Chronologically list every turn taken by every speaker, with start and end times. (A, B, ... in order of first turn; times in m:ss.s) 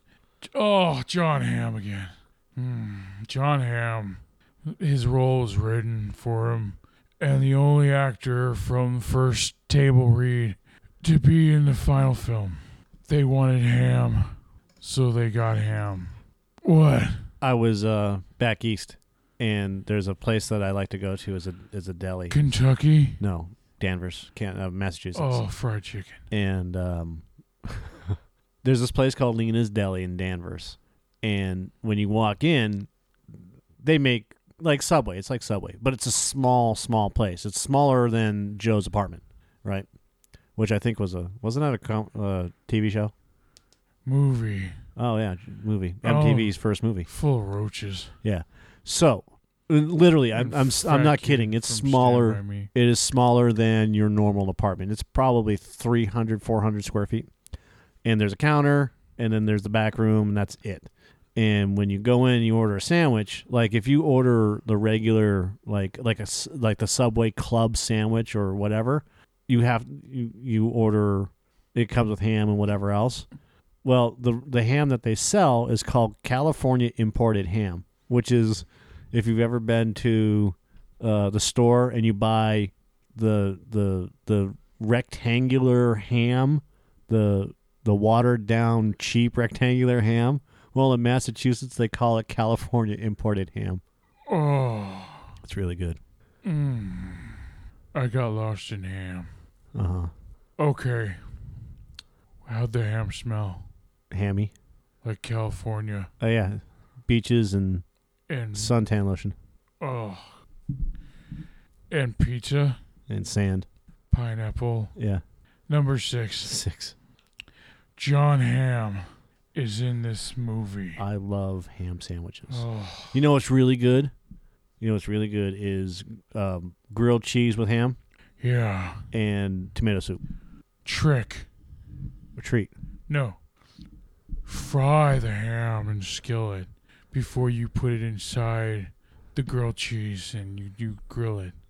0:00.4-0:17.3 A
0:17.4-0:22.4 B
0:22.3-0:23.2 A
0:23.2-0:25.4 B
0:25.2-0:26.2 A
0:26.3-0:32.9 B
0:33.8-0:39.9 B
0:40.6-0:43.1 B
0:44.0-0:44.8 A
0:45.0-0:47.1 B
0:46.0-0:46.6 A
0:47.1-0:48.2 A
0:48.2-0:57.3 B
0:50.4-0:52.7 A
0:58.0-1:13.3 B
1:13.8-1:33.8 B
1:34.3-1:35.3 A
1:35.4-1:36.0 B
1:36.4-1:37.4 A
1:37.9-1:39.3 A
1:39.7-1:40.1 B
1:40.6-1:41.2 A
1:42.4-1:43.7 A
1:44.1-1:44.5 B
1:45.0-1:46.1 A
1:46.2-1:47.8 B
1:48.3-1:48.8 A
1:48.5-1:49.4 B
1:49.8-1:50.4 A
1:51.9-1:52.8 A
1:53.1-1:53.7 B
1:54.1-1:55.0 A
1:55.0-1:55.2 B
1:55.7-1:56.6 A
1:56.4-1:57.0 B
1:58.0-2:01.0 A
2:01.0-2:04.1 B
2:02.5-2:03.2 A
2:04.8-2:08.0 B
2:08.4-2:09.1 A
2:09.1-2:10.2 B
2:10.8-2:11.5 A
2:12.4-2:12.7 B
2:13.1-2:13.4 A
2:14.5-2:21.6 A